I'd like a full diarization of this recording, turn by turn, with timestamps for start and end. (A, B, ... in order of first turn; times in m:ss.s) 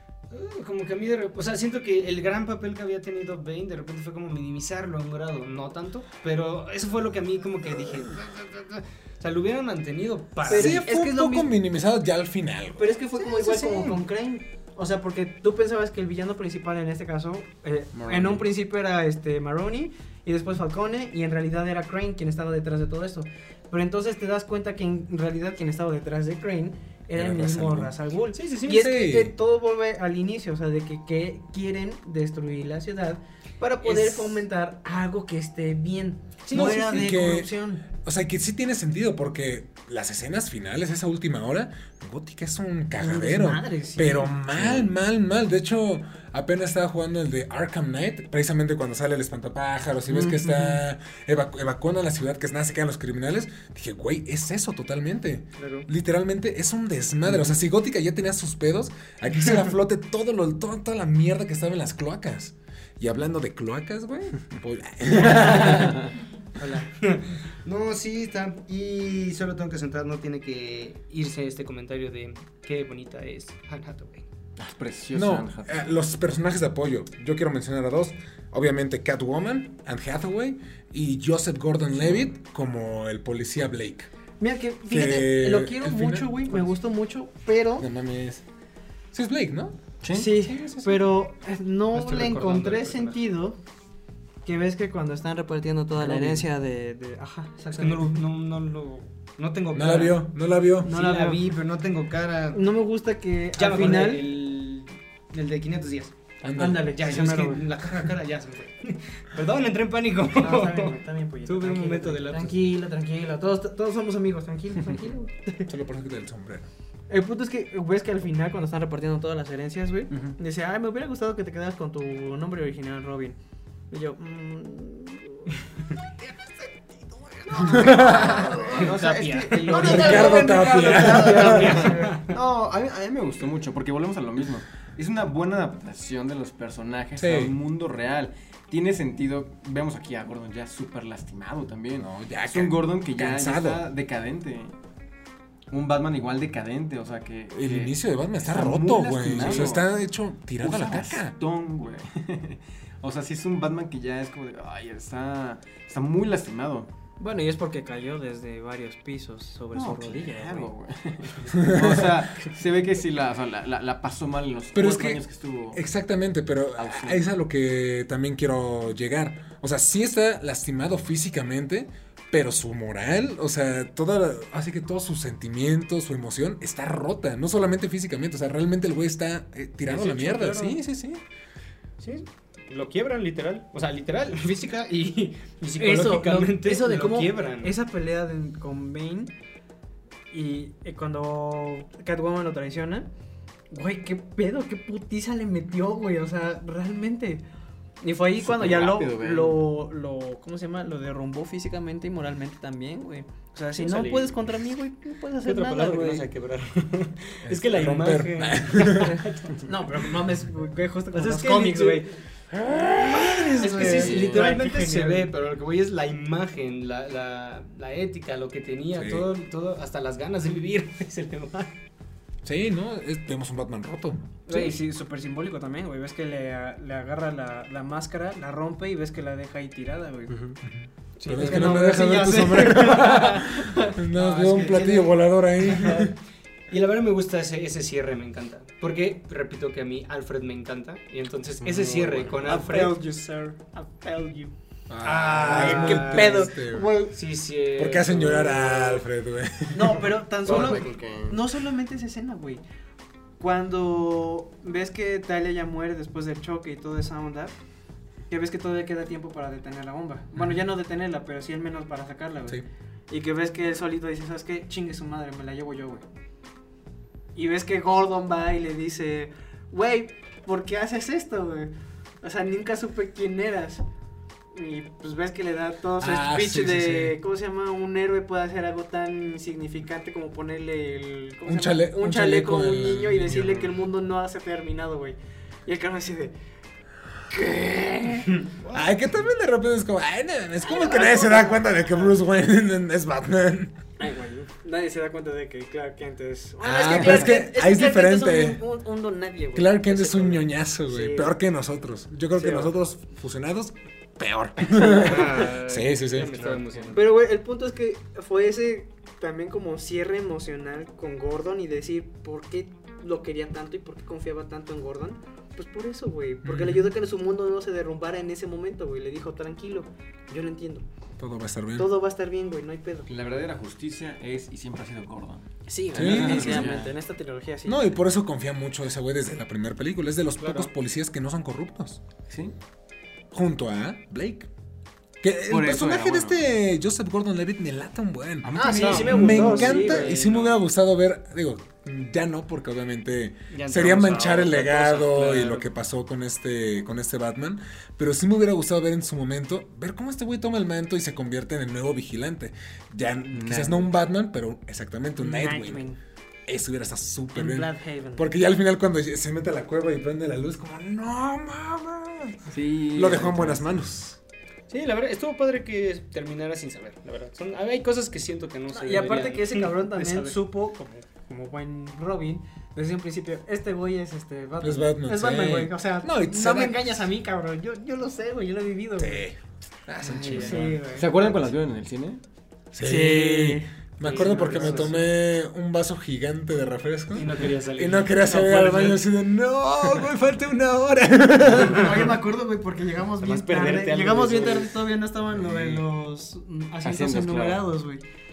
0:00.3-0:11.3 A
0:10.5-0:11.5 B
0:10.5-0:12.9 C
0:12.8-0:37.9 B
0:13.2-0:14.0 A
0:17.9-0:18.5 D
0:27.1-0:27.9 C
0:28.3-0:28.9 A
0:28.8-0:29.4 C
0:33.8-0:34.5 A
0:36.4-0:37.1 A
0:36.5-1:06.0 C
0:43.0-0:44.4 B
0:44.6-0:44.9 D
0:50.1-0:50.8 B
0:55.6-0:55.9 A
0:57.3-0:57.5 D
1:05.5-1:06.1 D
1:06.6-1:06.9 B
1:06.6-1:14.3 A
1:14.6-1:15.9 D
1:15.1-1:24.1 C
1:22.0-1:22.3 D
1:24.4-1:27.9 B
1:24.9-1:26.6 C
1:27.8-1:28.4 C
1:29.1-1:31.1 C
1:30.0-1:30.3 D
1:30.1-1:33.6 B
1:31.9-1:33.2 A
1:34.4-1:38.2 B
1:37.7-1:40.3 A
1:39.7-1:40.9 C
1:40.8-1:42.6 A
1:40.8-1:41.5 B
1:42.5-1:44.2 B
1:43.6-1:52.6 A
1:46.4-1:47.2 C
1:46.5-1:47.7 B
1:50.4-1:55.7 B
1:55.7-1:56.7 C
1:57.1-2:03.4 B
2:03.9-2:09.0 B
2:07.6-2:08.4 C
2:08.0-2:24.8 D
2:08.4-2:10.4 A
2:09.5-2:12.3 B
2:09.7-2:11.8 C
2:11.0-2:12.2 A
2:17.2-2:17.5 C
2:22.0-2:23.8 C
2:25.7-2:29.9 D
2:27.5-2:31.3 C
2:30.6-2:36.9 D
2:37.2-2:40.7 B
2:39.7-2:45.8 D
2:41.7-2:42.0 C
2:44.7-2:45.2 C
2:45.7-3:01.2 C
2:46.8-2:47.3 D
2:59.9-3:00.8 B
3:02.0-3:07.8 A
3:05.8-3:09.3 B
3:10.3-3:13.1 B
3:13.7-3:17.4 B
3:18.0-3:26.2 B
3:18.4-3:19.7 D
3:23.8-3:24.4 A
3:25.4-3:29.7 A
3:27.5-3:29.2 C
3:28.9-3:35.3 B
3:31.1-3:32.2 A
3:33.1-3:33.7 C
3:33.2-3:41.7 A
3:33.8-3:34.5 D
3:39.0-3:39.3 C
3:42.4-3:44.2 C
3:44.5-3:50.5 B
3:44.5-3:44.8 A
3:50.6-3:56.1 C
3:51.2-3:55.2 B
3:51.2-3:51.8 A
3:54.2-3:54.8 A
3:55.6-3:56.1 A
3:56.7-4:03.0 A
4:02.3-4:04.5 B
4:04.9-4:06.9 C
4:05.0-4:09.0 A
4:05.4-4:07.1 B
4:07.8-4:10.1 C
4:09.7-4:12.6 B
4:10.4-4:11.4 D
4:10.5-4:10.8 A
4:13.4-4:17.5 B
4:18.3-4:26.0 B
4:27.4-4:33.8 B
4:34.5-4:46.3 B
4:36.0-4:37.2 C
4:41.4-4:43.6 C
4:47.3-4:48.9 B
4:48.7-4:53.7 C
4:50.6-4:52.1 B
4:54.0-5:01.4 B
4:56.6-4:58.6 C
4:56.8-4:57.3 D
4:59.6-5:06.3 C
5:02.4-5:02.7 B
5:04.9-5:07.0 A
5:06.2-5:07.0 D
5:06.9-5:20.9 B
5:16.4-5:16.9 C
5:21.2-5:21.9 C
5:21.8-5:23.1 B
5:23.1-5:27.0 D
5:25.7-5:27.8 B
5:26.0-5:26.8 C
5:27.6-5:32.0 C
5:30.4-5:30.7 A
5:32.3-5:32.5 D
5:33.3-5:34.5 C
5:35.2-5:55.9 C
5:35.5-5:36.4 D
5:38.4-5:39.4 D
5:38.6-5:40.2 B
5:38.6-5:40.6 A
5:43.5-5:45.6 A
5:53.3-5:53.9 D
5:55.2-5:56.0 B
5:56.5-6:02.4 C
5:57.4-5:58.3 B
6:02.5-6:03.8 D
6:02.9-6:04.2 C
6:04.7-6:10.4 A
6:08.7-6:19.3 B
6:14.6-6:16.8 C
6:19.0-6:20.8 C
6:20.0-6:20.7 A
6:20.1-6:21.5 B
6:20.9-6:22.2 D
6:22.7-6:32.2 C
6:22.8-6:25.0 B
6:24.0-6:25.0 A
6:27.1-6:29.0 A
6:31.6-6:38.0 B
6:33.2-6:34.9 A
6:35.3-6:35.8 C
6:36.8-6:37.6 D